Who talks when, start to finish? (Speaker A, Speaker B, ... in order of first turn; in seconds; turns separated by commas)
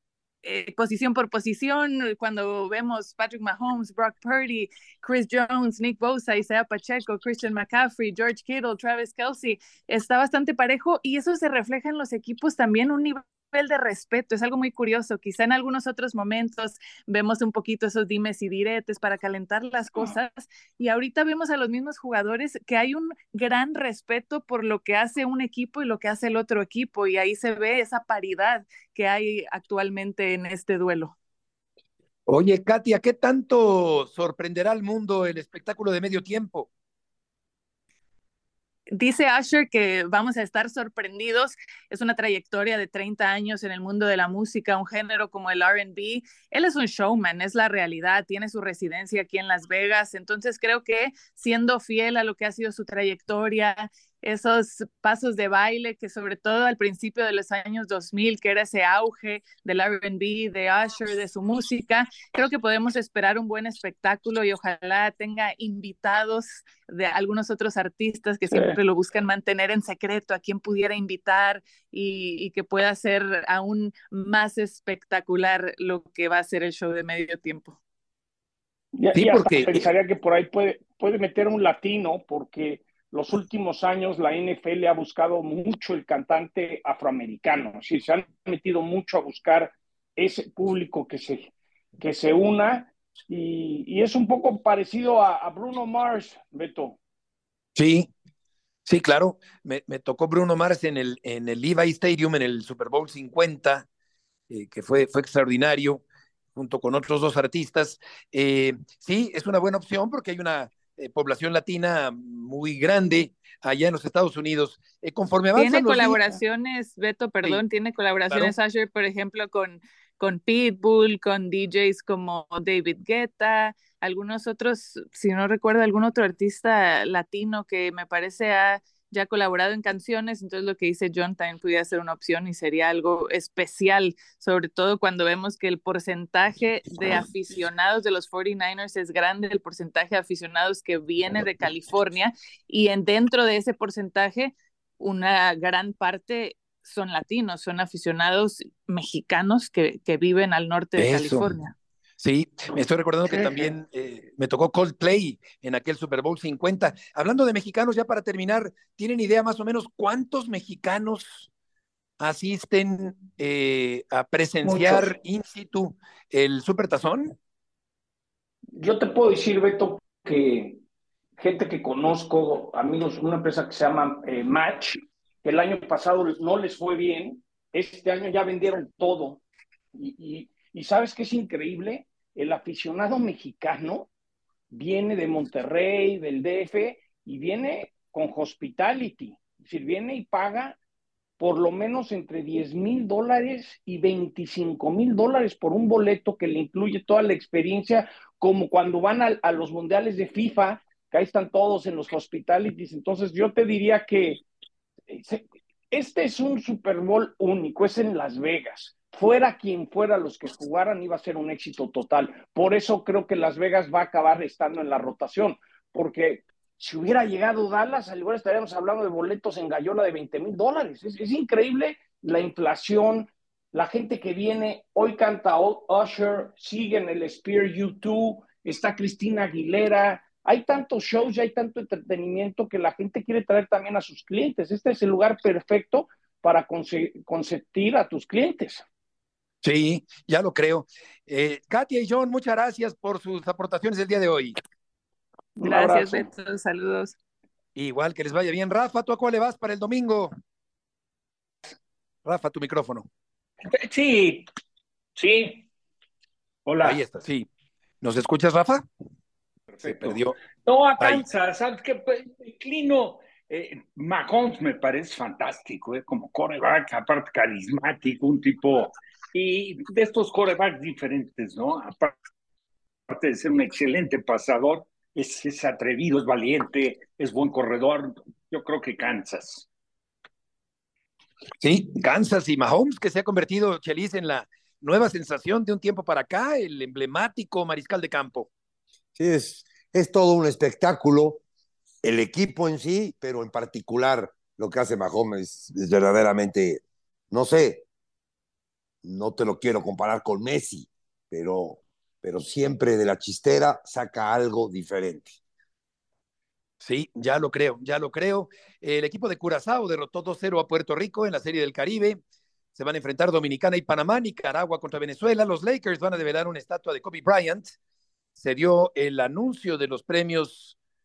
Speaker A: 0.4-31.1, Speaker B: 32.3-36.7, Speaker A: 38.9-77.8, Speaker C: 68.5-68.8, Speaker C: 79.0-97.0, Speaker B: 79.1-79.9, Speaker B: 97.8-98.1, Speaker B: 98.9-103.8, Speaker B: 104.5-106.0, Speaker B: 106.5-116.2, Speaker A: 115.5-151.7, Speaker B: 151.0-151.5, Speaker B: 152.2-161.5, Speaker B: 162.2-167.3, Speaker C: 164.6-165.1, Speaker C: 168.8-170.8, Speaker C: 171.4-179.4, Speaker C: 179.9-184.1, Speaker C: 184.7-190.8, Speaker C: 191.4-204.4, Speaker C: 205.1-238.8, Speaker B: 239.6-244.6, Speaker C: 245.6-246.3, Speaker A: 245.7-247.1, Speaker B: 247.8-250.3, Speaker B: 252.2-253.1, Speaker D: 253.7-254.5, Speaker D: 255.2-255.6, Speaker D: 256.6-257.0, Speaker B: 256.8-257.5, Speaker B: 258.0-258.8, Speaker D: 259.7-272.2, Speaker B: 259.8-260.4, Speaker B: 261.0-261.2, Speaker D: 273.1-279.7, Speaker B: 281.6-288.5, Speaker E: 289.1-291.4, Speaker E: 292.0-297.8, Speaker E: 299.0-305.4, Speaker B: 306.8-312.2, Speaker B: 312.7-317.8, Speaker B: 318.4-320.8